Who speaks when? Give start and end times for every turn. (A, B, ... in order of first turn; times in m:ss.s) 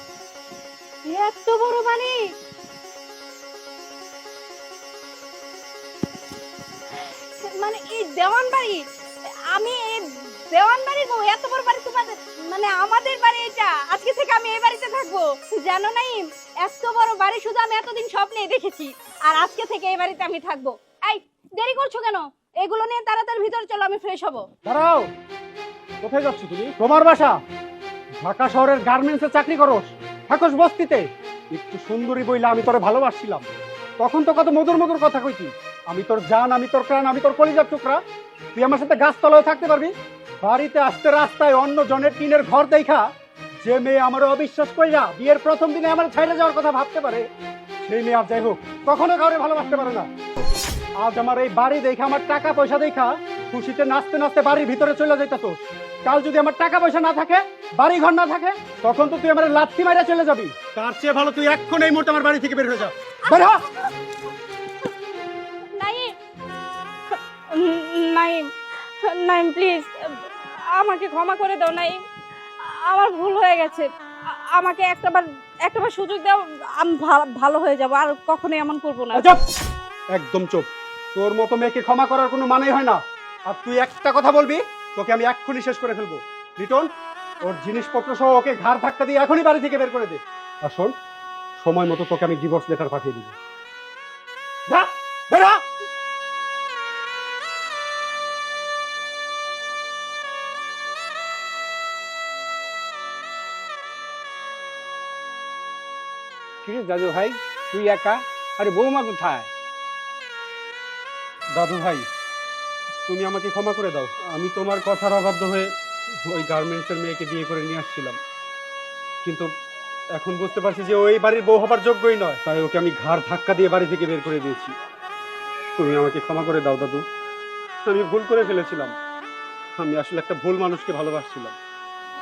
0:01.0-0:02.3 A
0:07.0-0:08.8 A
0:09.5-0:24.4 A
0:24.6-0:25.1 B
0:26.0-0:27.4 B
0:28.2-0:33.5 B
0:34.0-0:38.0 B
0:38.5-0:43.1 B
0:43.6-0:47.3 B
0:47.8-0:50.1 B
0:51.0-1:03.7 B
1:05.7-1:06.1 A
1:07.1-1:12.0 A
1:12.6-1:19.3 A
1:19.1-1:19.4 B
1:20.1-1:26.9 B
1:27.4-1:30.9 B
1:31.6-1:33.3 B
1:34.7-1:35.6 B
1:46.6-1:49.5 C
1:51.5-1:52.0 B
1:53.0-1:55.7 B
1:56.2-1:58.2 B
1:59.2-1:59.5 B
2:00.1-2:04.7 B
2:05.8-2:07.0 B
2:07.8-2:08.9 B
2:09.8-2:11.6 B